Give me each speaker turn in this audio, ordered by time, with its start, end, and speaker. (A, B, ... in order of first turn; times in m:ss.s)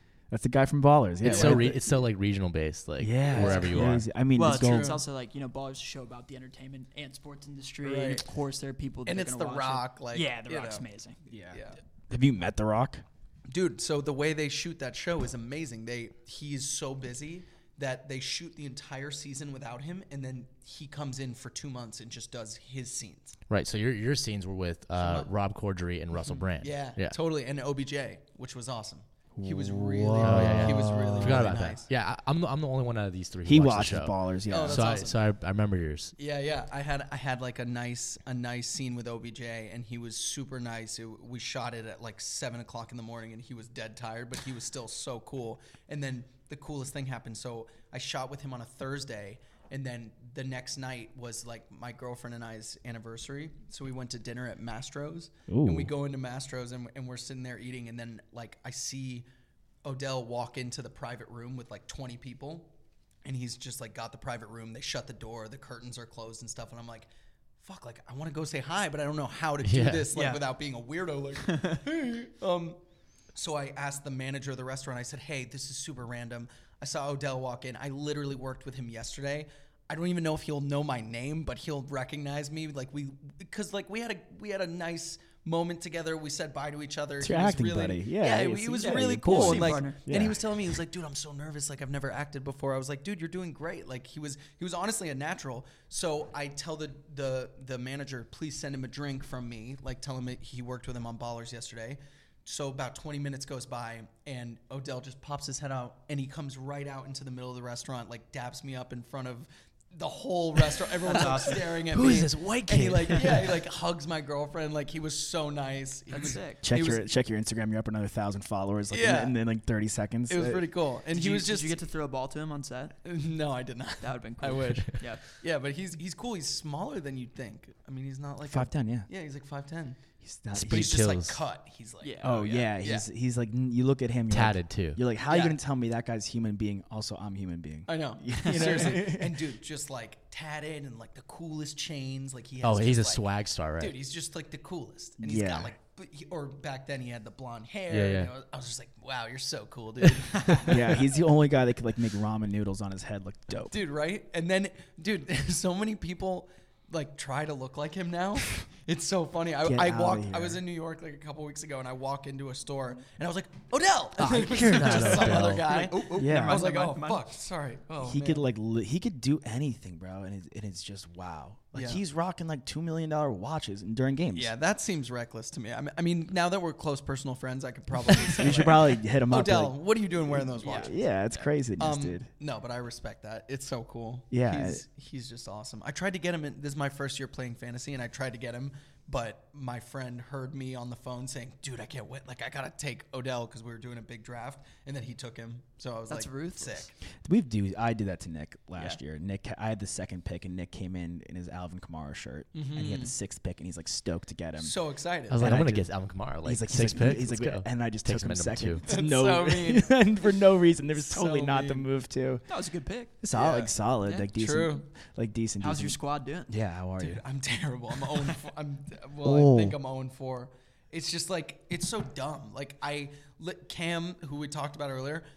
0:00.3-0:02.0 A
0:01.2-0:01.7 B
0:01.2-0:04.0 C
0:03.0-0:05.0 A
0:03.2-0:03.9 B
0:04.3-0:11.2 D
0:04.4-0:05.0 B
0:07.8-0:08.2 B
0:09.0-0:10.8 B
0:11.3-0:13.0 A
0:11.5-0:11.8 B
0:13.5-0:23.4 B
0:23.5-0:27.2 C
0:25.0-0:25.3 B
0:26.2-0:31.9 B
0:29.4-0:31.6 A
0:30.2-0:36.1 C
0:33.4-0:35.0 A
0:34.5-0:35.2 B
0:36.2-0:59.2 B
0:55.5-0:55.9 A
0:59.8-1:02.7 B
1:03.2-1:07.1 B
1:07.6-1:12.8 B
1:09.6-1:10.1 C
1:10.1-1:10.4 D
1:11.4-1:11.8 D
1:13.3-1:57.0 B
1:27.2-1:30.6 A
1:28.8-1:30.0 D
1:51.0-1:51.8 D
1:51.1-1:53.6 A
1:56.1-1:56.6 D
1:56.6-2:00.7 A
1:58.9-1:59.4 B
2:00.3-2:01.8 B
2:01.1-2:03.0 D
2:03.0-2:10.0 B
2:04.0-2:05.2 D
2:08.4-2:09.1 A
2:10.2-2:11.0 A
2:10.5-2:11.4 C
2:10.6-2:13.1 B
2:12.0-2:12.7 D
2:12.2-2:19.4 A
2:14.3-2:15.0 C
2:15.3-2:15.6 B
2:17.9-2:23.2 B
2:18.4-2:19.0 D
2:22.6-2:23.9 C
2:23.8-2:31.0 B
2:25.2-2:25.7 A
2:27.9-2:28.3 C
2:30.2-2:30.5 D
2:30.6-2:33.8 A
2:33.7-2:48.5 B
2:39.6-2:40.6 A
2:44.2-2:45.6 A
2:44.7-2:45.6 C
2:45.0-2:47.2 D
2:46.1-2:46.7 A
2:48.0-2:54.5 A
2:51.7-2:52.0 B
2:54.3-3:00.9 B
2:58.3-3:02.3 A
3:00.6-3:01.5 D
3:01.8-3:17.0 B
3:04.3-3:04.8 A
3:16.1-3:16.9 D
3:17.2-3:24.8 A
3:22.5-3:23.1 B
3:24.6-3:25.5 B
3:25.3-3:28.8 C
3:25.3-3:25.9 A
3:26.4-3:32.4 A
3:28.9-3:30.1 B
3:30.9-3:31.9 B
3:32.5-3:33.2 D
3:33.2-3:37.2 A
3:33.3-3:33.7 B
3:34.3-3:34.8 B
3:35.6-3:36.5 D
3:37.0-3:45.2 B
3:39.2-3:39.8 A